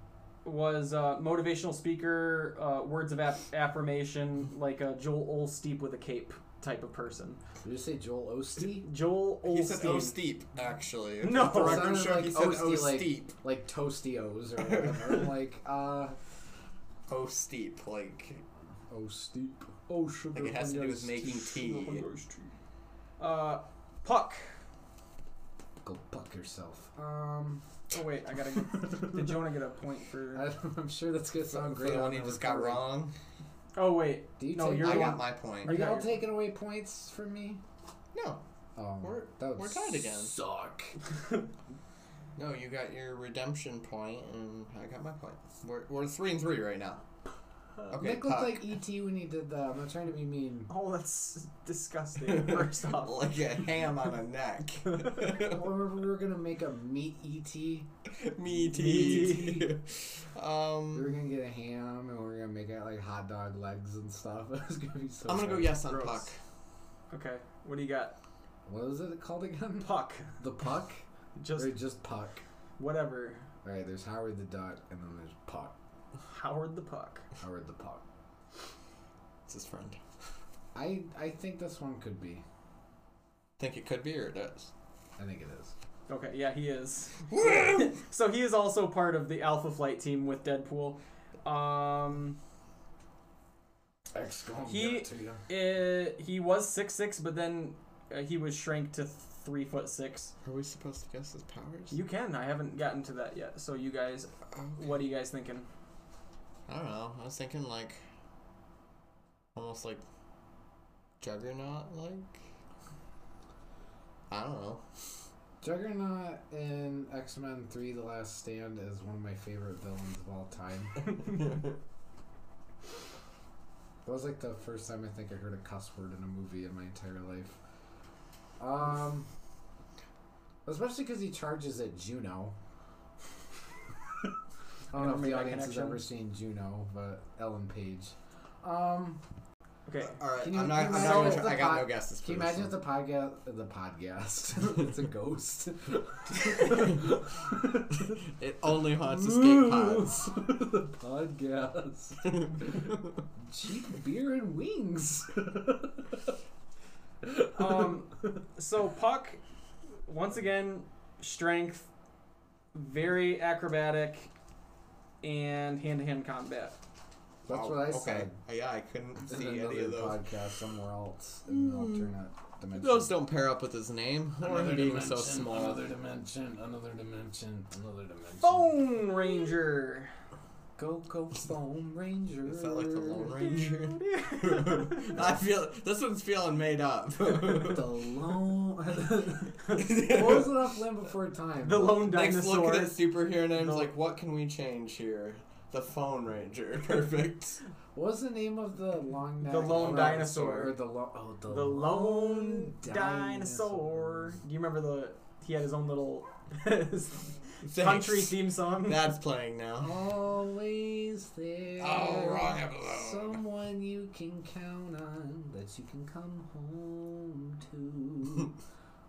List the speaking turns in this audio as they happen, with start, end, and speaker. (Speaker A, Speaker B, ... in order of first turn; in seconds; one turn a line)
Speaker A: 0.4-7.4
Speaker B: 7.6-8.9
Speaker A: 8.8-10.2
Speaker C: 9.4-13.3
Speaker A: 11.2-12.0
Speaker B: 11.4-16.2
Speaker C: 14.6-15.3
Speaker C: 17.1-18.4
Speaker B: 18.9-22.4
Speaker C: 20.3-22.1
Speaker A: 23.2-24.5
Speaker B: 25.8-27.7
Speaker A: 27.9-30.5
Speaker B: 30.3-32.8
Speaker C: 31.5-33.1
Speaker A: 33.8-36.2
Speaker B: 34.4-37.6
Speaker C: 34.8-35.7
Speaker C: 38.1-38.4
Speaker B: 38.8-40.9
Speaker C: 39.0-40.4
Speaker C: 42.4-47.0
Speaker C: 47.9-48.7
Speaker B: 47.9-50.7
Speaker A: 50.7-53.2
Speaker C: 52.2-55.7
Speaker B: 55.3-57.9
Speaker C: 58.1-61.1
Speaker A: 58.7-59.7
Speaker B: 58.7-59.6
Speaker B: 60.9-66.0
Speaker C: 65.3-66.4
Speaker A: 65.9-66.2
Speaker A: 67.1-68.2
Speaker B: 68.7-71.0
Speaker A: 69.8-70.3
Speaker A: 71.4-71.7
Speaker B: 71.6-72.4
Speaker A: 72.8-73.5
Speaker B: 73.6-75.7
Speaker A: 76.2-77.2
Speaker B: 77.4-78.0
Speaker C: 79.5-80.0
Speaker B: 80.7-82.4
Speaker C: 83.6-84.7
Speaker B: 85.2-85.7
Speaker A: 86.1-92.4
Speaker C: 87.3-87.9
Speaker B: 94.1-95.4
Speaker A: 94.7-100.3
Speaker C: 100.4-102.0
Speaker A: 101.9-105.7
Speaker C: 104.5-104.9
Speaker C: 106.7-108.0
Speaker C: 109.5-110.0
Speaker C: 111.2-112.4
Speaker C: 114.3-114.8
Speaker B: 115.6-121.1
Speaker C: 121.4-121.7
Speaker B: 124.0-127.6
Speaker B: 128.6-129.3
Speaker B: 130.6-132.6
Speaker B: 134.9-139.2
Speaker A: 134.9-136.1
Speaker A: 139.9-140.2
Speaker C: 140.2-142.8
Speaker B: 140.4-148.0
Speaker A: 140.8-141.5
Speaker C: 148.0-150.5
Speaker B: 149.0-156.2
Speaker C: 152.2-152.9
Speaker A: 157.5-159.4
Speaker A: 160.1-161.9
Speaker A: 162.7-164.3
Speaker A: 165.2-166.8
Speaker B: 167.4-168.3
Speaker C: 167.5-170.2
Speaker B: 169.2-173.1
Speaker C: 171.5-172.1
Speaker C: 172.7-175.9
Speaker B: 174.4-178.7
Speaker A: 178.4-180.1
Speaker B: 180.8-183.5
Speaker C: 182.4-187.9
Speaker A: 183.4-185.2
Speaker B: 187.3-192.1
Speaker C: 189.7-190.7
Speaker A: 191.6-193.0
Speaker C: 192.0-197.6
Speaker A: 193.5-193.9
Speaker B: 197.9-204.4
Speaker A: 199.4-200.7
Speaker C: 199.6-200.6
Speaker A: 201.5-209.1
Speaker C: 207.7-210.1
Speaker B: 209.8-218.6
Speaker C: 211.8-213.4